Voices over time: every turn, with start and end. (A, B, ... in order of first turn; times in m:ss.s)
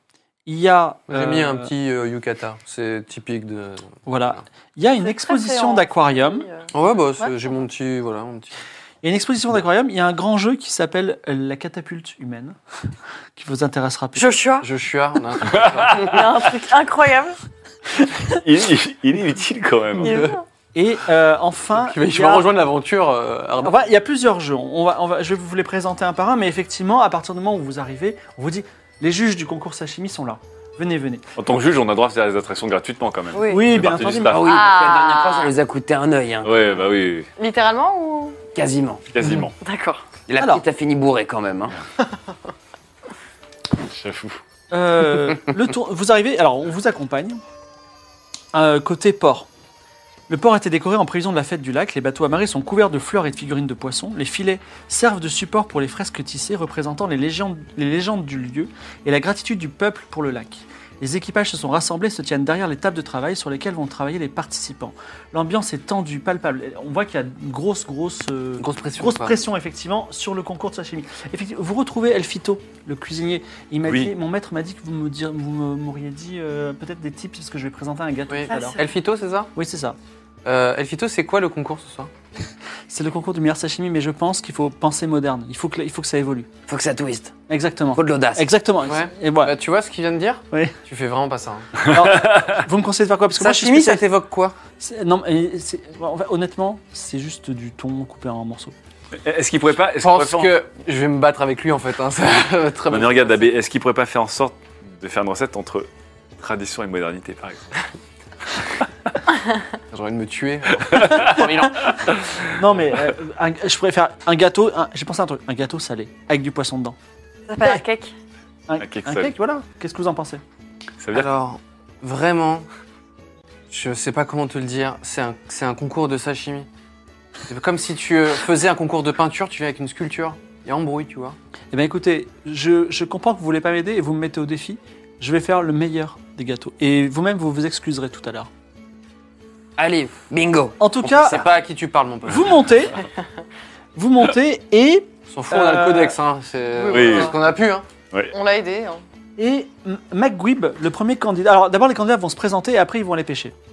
0:00.4-0:01.7 A
0:01.1-0:04.4 B
0:04.0-0:06.4 A
0:05.0-0:07.4 C
0:06.7-0:08.5 B
0:09.0-0:12.6 A
0:13.4-0:14.4 A
0:14.2-0:14.7 C
0:14.6-0:16.2 B
0:15.4-0:16.4 D
0:15.9-0:17.4 C
0:18.3-0:20.3 D
0:20.0-0:20.4 B
0:20.0-0:20.4 C
0:20.7-0:22.5 A
0:21.7-0:23.8 B
0:23.6-0:31.3 A
0:31.4-0:34.7 D
0:33.3-0:33.7 C
0:33.5-0:34.5 A
0:34.3-0:36.8 E
0:34.4-0:35.5 C
0:36.4-0:37.3 D
0:37.4-0:38.4 C
0:38.5-0:39.2 E
0:39.1-0:39.5 D
0:39.6-0:40.0 C
0:40.3-0:41.8 E
0:43.8-0:44.4 D
0:44.7-0:47.4 A
0:48.5-0:49.5 A
0:50.3-1:18.8 A
1:08.6-1:09.4 B
1:13.8-1:14.1 D
1:18.3-1:19.5 B
1:18.5-1:18.8 C
1:19.5-1:20.0 A
1:20.4-1:22.1 B
1:22.9-1:26.5 A
1:26.7-1:27.3 E
1:27.5-1:29.5 A
1:27.9-1:28.5 E
1:28.8-1:31.7 B
1:31.9-1:34.1 A
1:31.9-1:32.6 D
1:33.4-1:34.5 B
1:34.8-1:38.7 A
1:39.2-1:40.6 D
1:40.0-1:43.4 B
1:42.9-1:47.9 D
1:48.5-1:48.8 D
1:49.9-1:51.9 B
1:50.9-1:51.4 D
1:51.2-1:51.9 A
1:52.5-1:57.0 A
1:57.5-1:58.1 C
1:58.7-2:00.4 A
1:58.8-1:59.3 D
2:01.0-2:01.3 D
2:01.1-2:02.6 B
2:03.7-2:06.7 B
2:07.5-2:11.4 B
2:11.7-2:18.5 A
2:19.8-2:21.5 E
2:20.8-2:21.4 A
2:21.2-2:22.6 B
2:22.3-2:23.0 A
2:23.9-2:26.2 A
2:25.3-2:27.8 B
2:26.8-2:27.4 C
2:26.9-2:27.4 D
2:28.3-2:29.0 C
2:29.4-2:33.5 A